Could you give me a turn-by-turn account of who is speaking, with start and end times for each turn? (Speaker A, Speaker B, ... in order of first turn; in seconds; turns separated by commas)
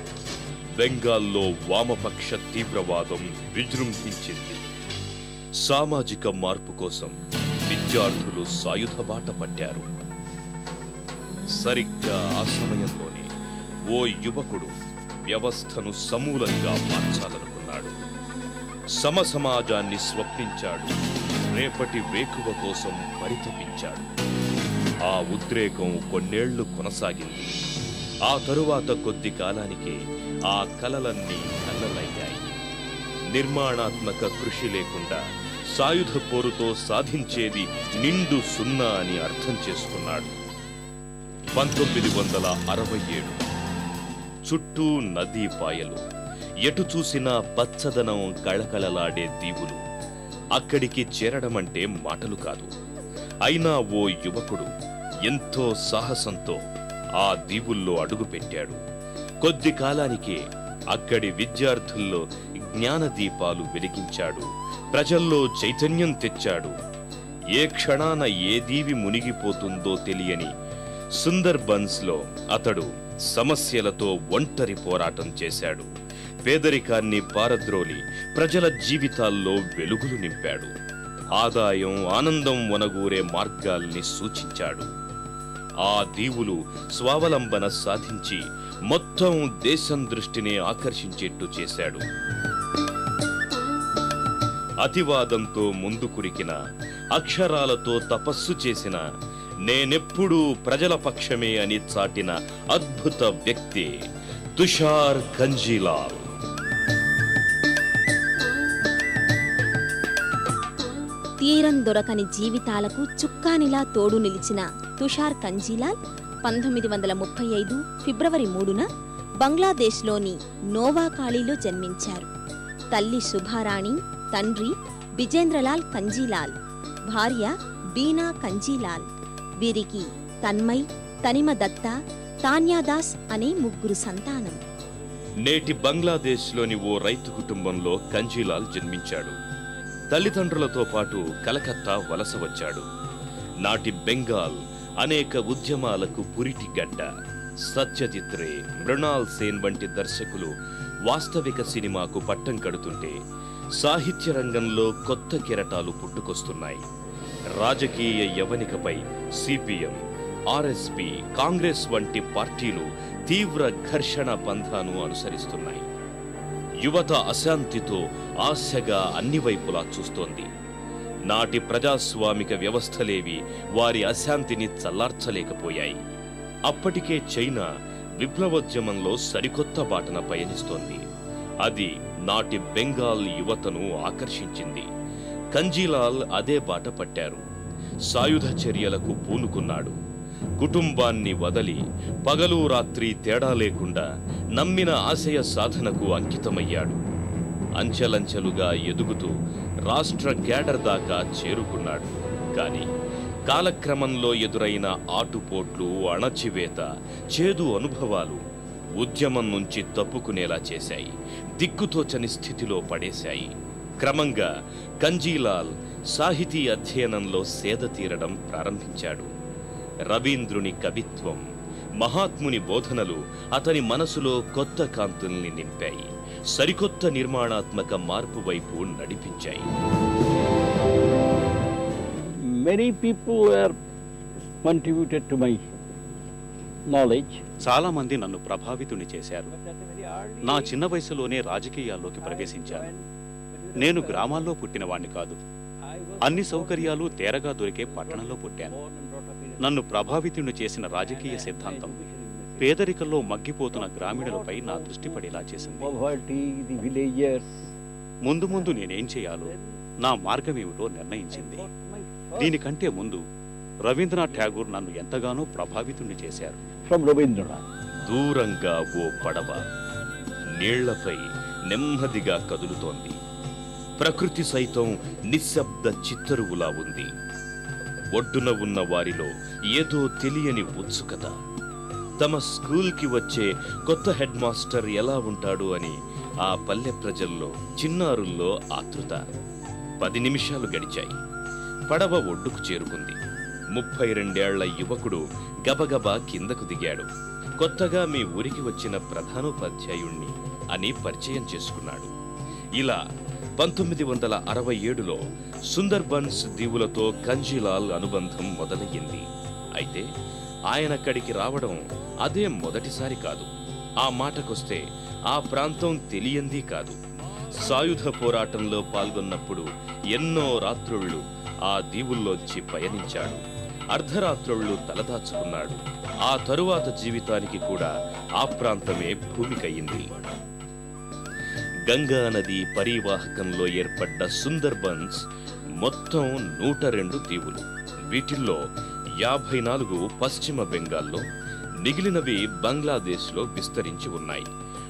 Speaker A: 0.8-4.6, Speaker A: 5.6-9.9, Speaker A: 11.6-13.3, Speaker A: 13.9-14.7, Speaker A: 15.2-18.0, Speaker A: 18.9-24.1, Speaker A: 25.1-27.5, Speaker A: 28.3-30.0, Speaker A: 30.5-32.5, Speaker A: 33.3-40.3, Speaker A: 41.5-43.4, Speaker A: 44.4-46.0, Speaker A: 46.6-49.8, Speaker A: 50.5-52.7, Speaker A: 53.5-54.7, Speaker A: 55.2-56.6, Speaker A: 57.2-58.8, Speaker A: 59.4-66.7, Speaker A: 67.5-70.5, Speaker A: 71.1-75.9, Speaker A: 76.4-80.7, Speaker A: 81.4-84.9, Speaker A: 85.8-92.0, Speaker A: 94.8-96.5, Speaker A: 97.1-99.0, Speaker A: 99.7-103.9, Speaker A: 104.6-106.2, Speaker B: 111.4-118.8, Speaker B: 119.4-122.3, Speaker B: 122.9-126.5, Speaker B: 127.1-129.1, Speaker B: 129.6-131.9, Speaker B: 132.4-134.6, Speaker A: 135.4-139.4, Speaker A: 140.1-142.8, Speaker A: 143.6-147.1, Speaker A: 147.6-150.5, Speaker A: 151.1-153.2, Speaker A: 153.8-156.8, Speaker A: 157.5-160.0, Speaker A: 160.5-165.8, Speaker A: 166.8-170.5, Speaker A: 171.3-176.0, Speaker A: 176.7-177.7, Speaker A: 178.2-181.0, Speaker A: 181.6-184.9, Speaker A: 185.5-187.4, Speaker A: 188.1-189.9, Speaker A: 190.6-194.0, Speaker A: 194.6-197.0, Speaker A: 197.8-199.3, Speaker A: 199.9-202.9, Speaker A: 203.5-208.4, Speaker A: 209.0-214.5, Speaker A: 215.0-219.3, Speaker A: 220.1-221.4, Speaker A: 222.0-229.7, Speaker C: 232.2-233.8, Speaker C: 234.6-235.6, Speaker C: 236.9-237.4, Speaker D: 237.6-239.5, Speaker C: 239.5-240.8, Speaker D: 240.4-242.9, Speaker C: 242.2-244.5, Speaker D: 243.8-245.4, Speaker C: 245.8-250.1, Speaker D: 246.2-248.8, Speaker D: 249.6-252.0, Speaker C: 251.0-252.8, Speaker D: 252.6-256.0, Speaker C: 253.7-257.7, Speaker D: 258.2-261.6, Speaker C: 258.5-258.8, Speaker C: 259.4-259.7, Speaker C: 261.3-262.6, Speaker D: 262.4-263.2, Speaker D: 263.9-266.6, Speaker C: 264.3-264.6, Speaker C: 266.9-267.6, Speaker A: 268.0-269.6, Speaker A: 270.6-273.2, Speaker A: 274.0-277.1, Speaker A: 278.1-281.3, Speaker A: 282.2-289.2, Speaker A: 290.0-291.2, Speaker A: 291.9-293.2, Speaker A: 293.7-297.1, Speaker A: 297.6-302.1, Speaker A: 303.6-310.1, Speaker A: 310.7-313.5, Speaker A: 314.0-317.0, Speaker A: 317.6-323.4, Speaker A: 323.9-330.1, Speaker A: 331.9-335.2, Speaker A: 335.8-338.6, Speaker A: 339.2-341.2, Speaker A: 341.8-344.5